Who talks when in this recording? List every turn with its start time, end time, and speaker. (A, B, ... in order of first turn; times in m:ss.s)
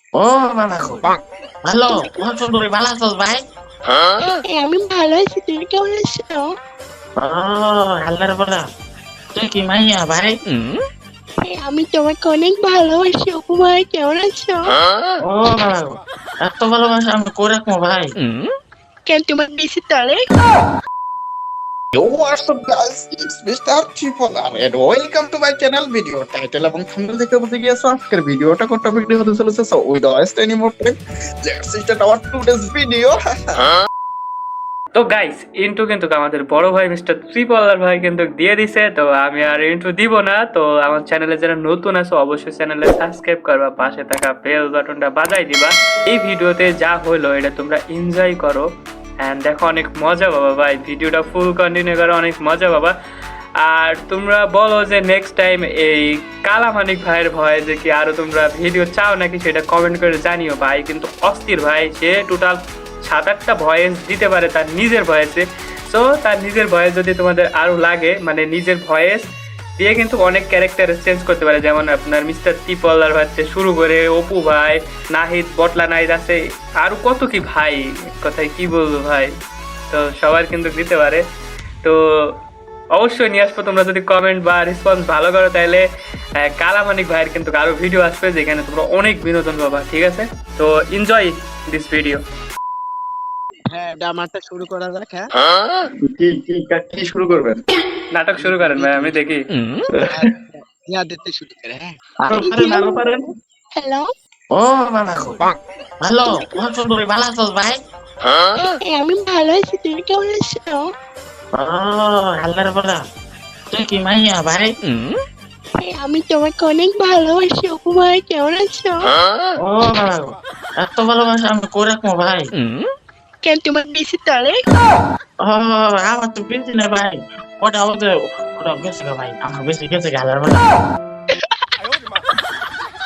0:00.2-0:01.1 A
0:01.7-0:03.4 A
0:04.4-0:06.5 B
0:07.2-0:08.6 A
0:09.3-0:10.4 A
0:11.5-0:14.8 B
0:15.3-0:18.1 A
0:19.1-0:20.2 B
0:21.9-0:33.7 C
0:35.0-0:48.7 D
0:49.2-0:52.9 D
0:53.6-1:09.3 D
1:09.8-1:19.3 D
1:19.9-1:21.2 D
1:21.8-1:22.3 D
1:23.0-1:25.8 D
1:26.4-1:32.2 D
1:33.7-1:35.3 E
1:36.1-1:37.6 C
1:38.1-1:39.5 D
1:38.4-1:39.2 E
1:40.1-1:41.9 E
1:42.2-1:43.3 C
1:42.4-1:43.2 B
1:43.8-1:44.1 B
1:44.5-1:45.4 A
1:46.0-1:47.8 A
1:48.9-1:50.9 B
1:51.5-1:53.0 A
1:53.7-1:54.7 A
1:55.8-1:59.1 B
1:59.6-2:02.5 A
2:03.4-2:04.6 B
2:05.4-2:10.6 A